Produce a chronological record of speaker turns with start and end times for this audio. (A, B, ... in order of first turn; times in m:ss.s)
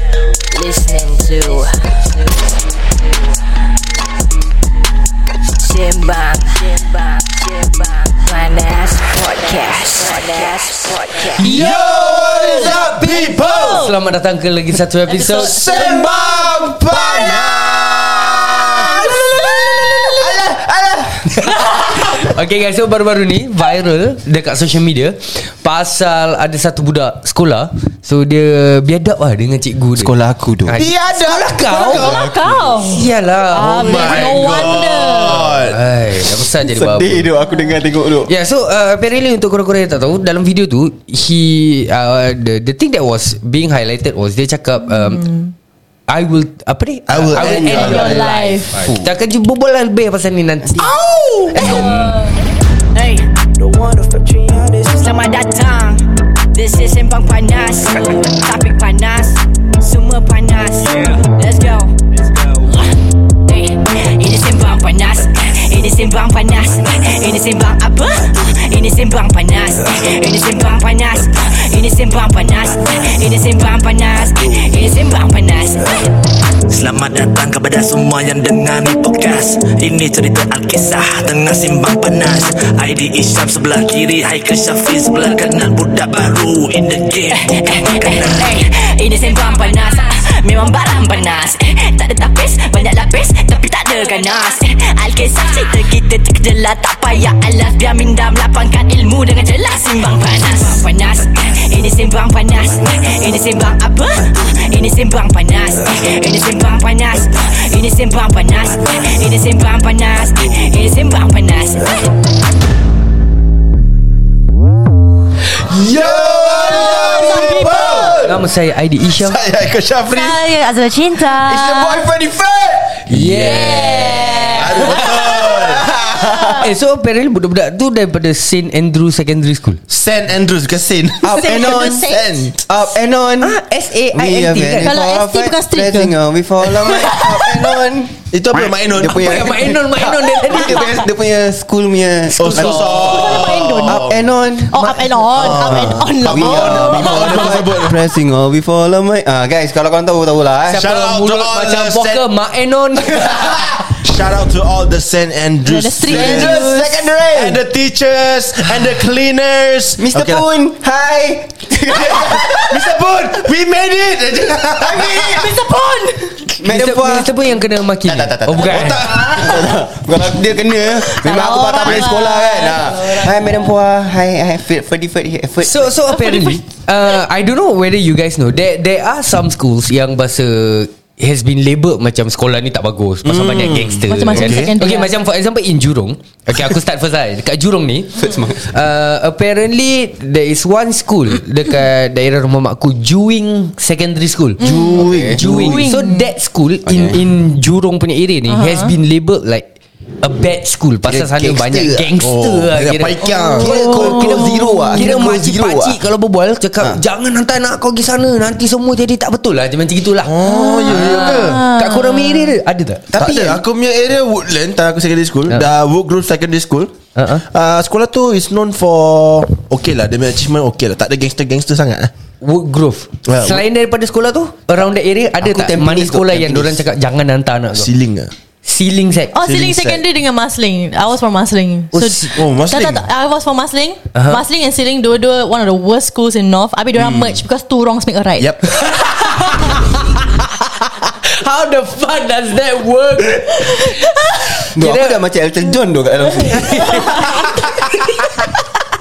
0:00.5-0:02.2 A
0:05.6-0:11.5 A
0:11.4-0:13.9 B
0:11.4-0:14.0 C
0:11.6-0:12.9 D
0:13.6-0:15.6 E
0:15.1-0:20.4 C
0:15.2-0:19.4 B
0:15.7-0:21.5 D
0:21.4-0:30.1 E
0:30.0-0:30.8 D
0:30.7-0:32.2 E
0:30.8-0:32.5 B
0:31.8-0:35.5 C
0:31.9-0:32.7 D
0:32.8-0:34.8 E
0:33.6-0:35.8 B
0:35.3-0:37.3 E
0:36.5-0:38.3 D
0:37.4-0:37.8 C
0:38.3-0:45.2 E
0:44.9-0:45.5 C
0:46.1-0:50.9 E
0:47.1-0:48.3 B
0:47.4-0:48.8 C
0:48.8-0:49.1 D
0:50.6-0:52.2 D
0:51.6-0:52.1 C
0:51.8-0:52.1 A
0:53.0-1:01.9 A
1:02.5-1:02.8 A
1:03.5-1:16.1 A
1:16.7-1:28.6 F
1:27.3-1:52.1 A
1:55.7-1:58.4 B
1:55.9-1:58.2 D
1:56.4-1:58.2 C
1:58.2-1:59.4 E
1:59.1-2:00.4 B
2:00.1-2:02.1 C
2:01.3-2:02.4 B
2:01.6-2:02.8 D
2:03.1-2:05.9 B
2:03.1-2:05.0 E
2:03.8-2:06.7 C
2:05.1-2:06.7 D
2:06.6-2:09.8 E
2:09.9-2:12.6 B
2:11.2-2:13.6 D
2:11.3-2:12.4 C
2:13.4-2:14.9 E
2:14.1-2:18.2 D
2:14.8-2:17.8 C
2:18.3-2:19.4 B
2:18.9-2:30.9 D
2:19.1-2:21.1 E
2:22.4-2:24.2 B
2:22.5-2:24.1 C
2:24.7-2:27.7 C
2:24.8-2:28.0 B
2:30.7-2:33.8 E
2:30.7-2:32.2 B
2:33.8-2:36.7 B
2:35.6-2:37.0 C
2:36.1-2:37.6 D
2:37.3-2:40.5 B
2:40.0-2:42.9 D
2:41.9-2:45.5 B
2:44.8-2:45.5 D
2:44.9-2:46.4 C
2:46.5-2:47.3 D
2:46.6-2:49.0 E
2:48.1-2:56.2 D
2:48.4-2:49.7 B
2:48.8-2:49.6 C
2:50.9-2:53.7 C
2:55.6-3:14.6 E
2:56.3-2:56.6 C
3:03.2-3:04.8 B
3:04.1-3:05.1 C
3:08.2-3:08.7 D
3:14.6-3:15.8 B
3:14.6-3:16.3 C
3:14.9-3:15.8 D
3:15.4-3:19.7 E
3:16.9-3:17.2 D
3:18.5-3:18.9 C
3:20.2-3:23.2 E
3:21.0-3:22.1 D
3:22.2-3:24.4 B
3:23.2-3:25.1 C
3:23.6-3:26.0 D
3:24.9-3:33.1 E
3:30.2-3:31.6 B
3:30.4-3:32.6 C
3:33.1-3:33.6 D
3:33.1-3:42.1 B
3:37.2-3:37.4 E
3:42.4-3:47.9 E
3:43.3-3:43.6 B
3:45.4-3:46.9 D
3:47.7-3:48.3 B
3:48.6-3:49.4 E
3:49.3-3:59.7 C
3:49.4-3:50.0 B
3:51.9-3:52.3 E
3:52.3-3:53.0 B
3:54.2-3:54.4 E
3:57.0-3:57.4 B
3:58.4-3:58.6 B
3:58.8-4:04.1 E
4:03.6-4:04.3 C
4:04.7-4:05.2 E
4:04.7-4:07.2 D
4:06.5-4:08.2 E
4:07.2-4:07.5 C